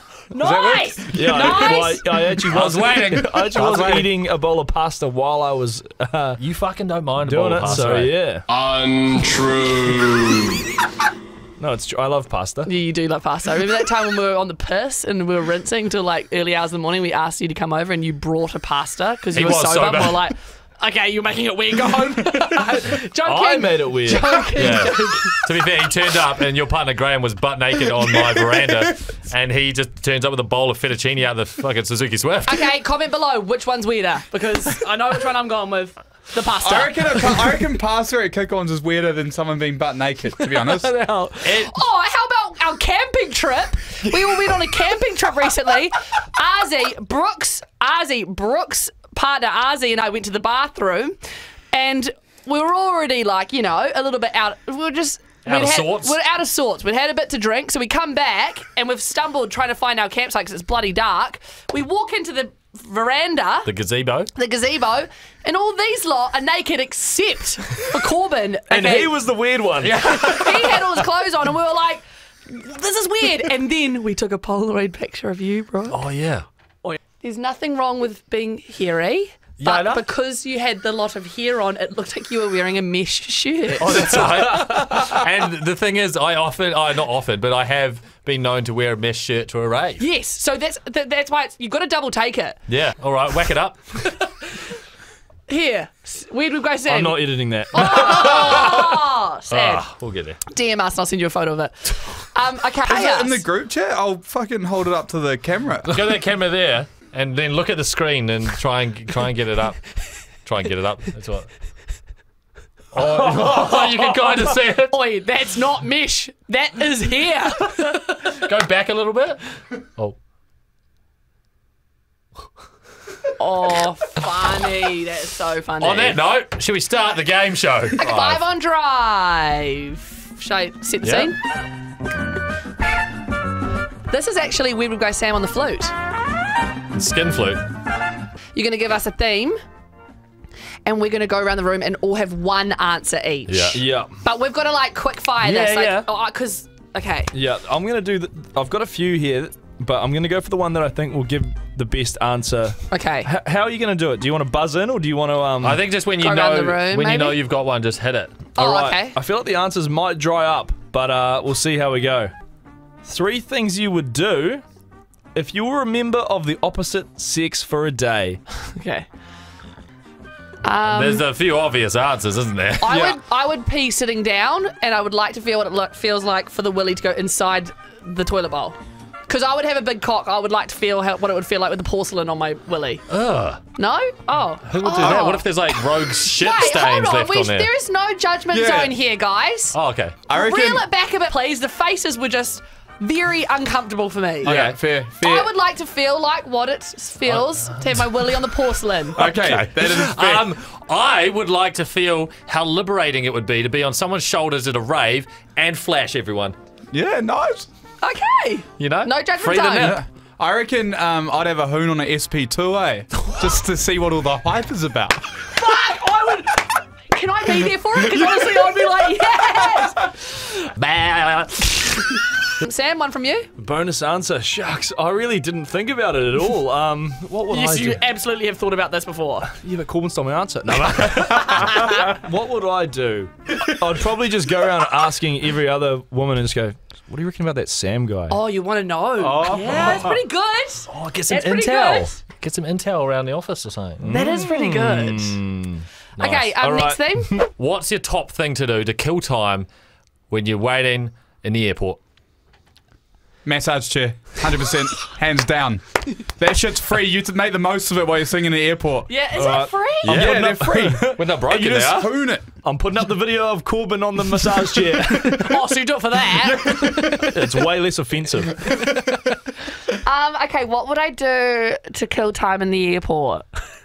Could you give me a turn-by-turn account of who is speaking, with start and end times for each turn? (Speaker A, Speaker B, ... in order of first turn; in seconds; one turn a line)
Speaker A: 0.3-2.1
Speaker B: 0.3-1.9
Speaker C: 1.1-6.4
Speaker D: 2.5-3.4
Speaker B: 3.2-4.1
Speaker D: 6.4-8.1
Speaker C: 7.2-8.5
Speaker E: 8.5-10.6
Speaker C: 11.6-12.7
Speaker A: 12.6-25.4
Speaker D: 19.3-20.3
Speaker C: 23.2-24.8
Speaker D: 24.6-32.7
Speaker B: 28.2-28.8
Speaker A: 32.5-37.4
Speaker B: 36.6-40.9
Speaker A: 40.4-51.2
Speaker D: 41.4-41.7
Speaker B: 44.0-44.3
Speaker A: 51.7-63.7
Speaker D: 55.4-56.2
Speaker D: 63.6-64.3
Speaker A: 64.3-69.1
Speaker C: 68.7-70.0
Speaker D: 69.8-70.9
Speaker A: 70.1-76.0
Speaker D: 75.9-76.4
Speaker A: 76.8-84.5
Speaker D: 79.6-80.0
Speaker D: 83.8-90.0
Speaker A: 90.0-92.6
Speaker D: 92.7-94.2
Speaker A: 95.5-99.8
Speaker C: 96.9-98.5
Speaker D: 97.8-99.0
Speaker D: 99.5-100.4
Speaker A: 100.5-103.4
Speaker B: 102.8-106.0
Speaker D: 105.9-111.5
Speaker D: 112.9-114.9
Speaker C: 112.9-114.4
Speaker A: 114.9-118.1
Speaker D: 118.1-120.2
Speaker A: 123.4-126.2
Speaker D: 125.8-128.4
Speaker A: 128.0-131.4
Speaker D: 131.0-131.3
Speaker A: 134.1-135.9
Speaker D: 136.9-137.6
Speaker A: 138.5-139.6
Speaker A: 140.8-147.3
Speaker D: 143.5-143.8
Speaker C: 143.7-144.2
Speaker D: 145.4-146.1
Speaker C: 147.3-155.8
Speaker A: 152.9-153.3
Speaker D: 155.6-158.5
Speaker A: 156.2-157.4
Speaker C: 158.6-162.3
Speaker A: 158.6-159.2
Speaker C: 163.0-164.6
Speaker C: 165.3-168.4
Speaker A: 168.7-169.1
Speaker A: 170.6-171.2
Speaker D: 170.8-172.9
Speaker A: 172.8-178.8
Speaker C: 172.9-173.2
Speaker A: 179.3-183.0
Speaker D: 183.1-183.6
Speaker A: 183.8-189.8
Speaker D: 184.6-187.7
Speaker B: 185.0-185.2
Speaker B: 188.5-188.9
Speaker D: 189.7-190.2
Speaker B: 190.2-190.8
Speaker A: 190.3-194.6
Speaker B: 194.4-195.5
Speaker D: 194.4-194.8
Speaker A: 195.2-199.2
Speaker D: 197.2-198.1
Speaker B: 199.2-200.5
Speaker D: 199.2-206.6
Speaker B: 206.9-207.7
Speaker A: 208.0-210.0
Speaker D: 208.8-210.0
Speaker B: 209.8-215.4
Speaker A: 215.5-220.1
Speaker B: 218.0-218.9
Speaker D: 220.7-222.0
Speaker A: 222.6-223.5
Speaker C: 223.6-228.0
Speaker A: 227.5-229.6
Speaker C: 229.6-238.4
Speaker D: 230.9-231.5
Speaker A: 231.3-231.9
Speaker A: 238.3-242.2
Speaker B: 239.2-240.1
Speaker C: 239.4-240.0
Speaker D: 239.7-240.1
Speaker D: 240.9-244.1
Speaker C: 244.0-245.9
Speaker A: 244.1-245.4
Speaker D: 246.2-246.6
Speaker A: 246.2-247.4
Speaker C: 246.6-247.5
Speaker D: 247.5-249.7
Speaker D: 250.3-252.0
Speaker B: 253.4-259.1
Speaker A: 259.1-260.2
Speaker C: 259.3-261.2
Speaker B: 260.0-262.5
Speaker D: 260.1-260.5
Speaker D: 261.1-262.1
Speaker C: 262.6-265.5
Speaker A: 265.0-267.4
Speaker B: 266.4-267.3
Speaker C: 267.3-268.9
Speaker B: 268.8-269.1
Speaker A: 269.9-273.5